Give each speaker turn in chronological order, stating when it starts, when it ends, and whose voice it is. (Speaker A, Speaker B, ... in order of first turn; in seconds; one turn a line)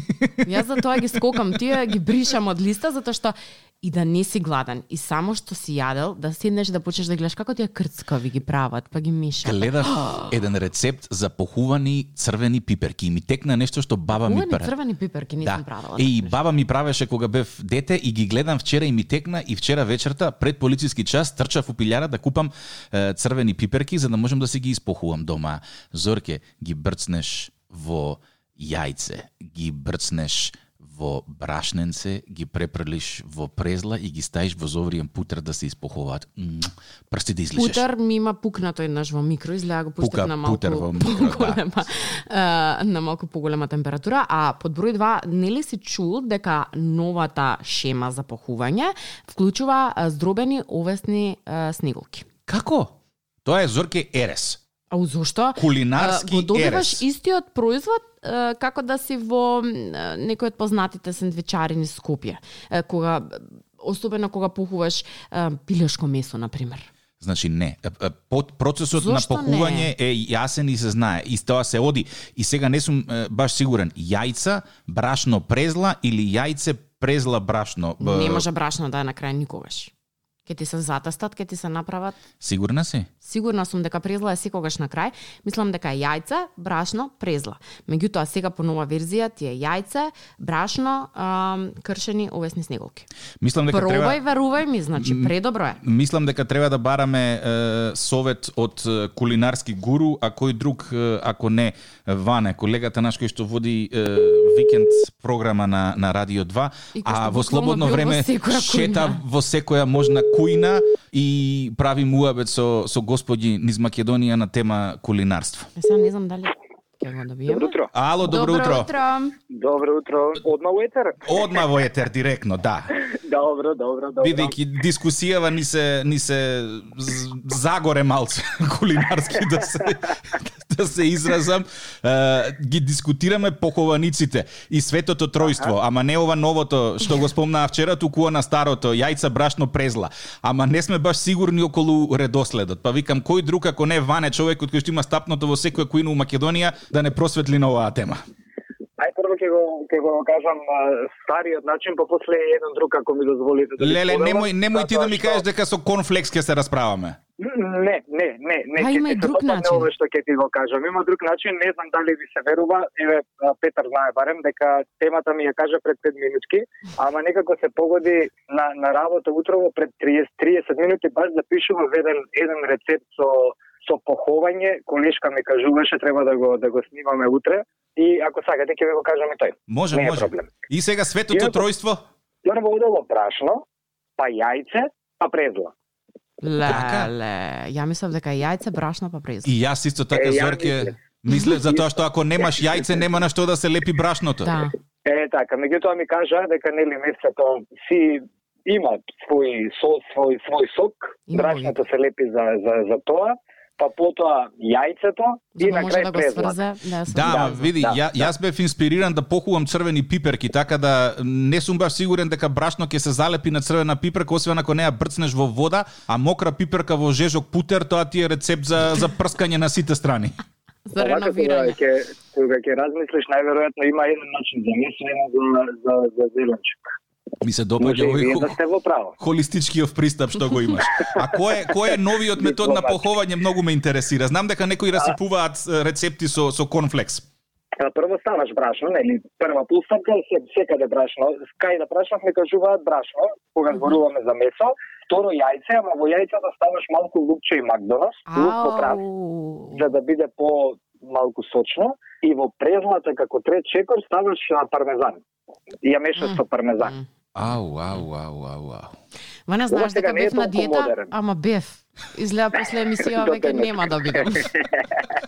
Speaker A: 0.4-10.2
Speaker B: 9.4-14.7
Speaker A: 14.1-16.4
Speaker B: 15.4-37.8
Speaker A: 37.5-52.3
Speaker B: 40.0-41.6
Speaker B: 52.5-52.9
Speaker B: 53.4-54.6
Speaker A: 54.9-66.9
Speaker B: 55.6-57.0
Speaker B: 67.2-78.5
Speaker A: 68.9-69.9
Speaker A: 78.0-79.9
Speaker A: 80.5-82.2
Speaker B: 82.4-83.1
Speaker A: 83.2-93.1
Speaker B: 93.4-94.2
Speaker A: 93.7-95.8
Speaker B: 95.0-115.7
Speaker A: 107.0-109.2
Speaker A: 115.8-119.3
Speaker C: 117.5-117.9
Speaker B: 117.9-118.9
Speaker C: 119.5-121.5
Speaker B: 121.2-122.9
Speaker C: 123.1-124.5
Speaker B: 124.2-148.2
Speaker C: 149.0-155.4
Speaker B: 153.8-157.2
Speaker C: 157.4-180.5
Speaker A: 158.8-159.9
Speaker B: 179.7-182.0
Speaker C: 181.3-181.6
Speaker C: 182.4-183.6
Speaker C: 184.2-185.7
Speaker A: 186.4-189.5
Speaker B: 186.6-187.1
Speaker B: 189.4-194.5
Speaker C: 190.1-190.9
Speaker C: 191.5-191.8
Speaker A: 194.4-194.7
Speaker C: 195.1-206.6
Speaker A: 201.3-201.8
Speaker A: 205.6-207.7
Speaker B: 207.1-220.3
Speaker C: 207.2-208.3
Speaker A: 220.9-221.8
Speaker C: 221.0-226.8
Speaker B: 227.4-228.6
Speaker C: 227.8-229.2
Speaker B: 229.2-237.2
Speaker C: 232.4-233.0
Speaker C: 237.8-249.0
Speaker A: 248.3-249.8
Speaker C: 249.8-255.2
Speaker C: 255.8-256.9
Speaker A: 256.2-257.1
Speaker B: 257.4-258.9
Speaker A: 259.5-264.5
Speaker C: 259.7-261.1
Speaker C: 263.1-263.9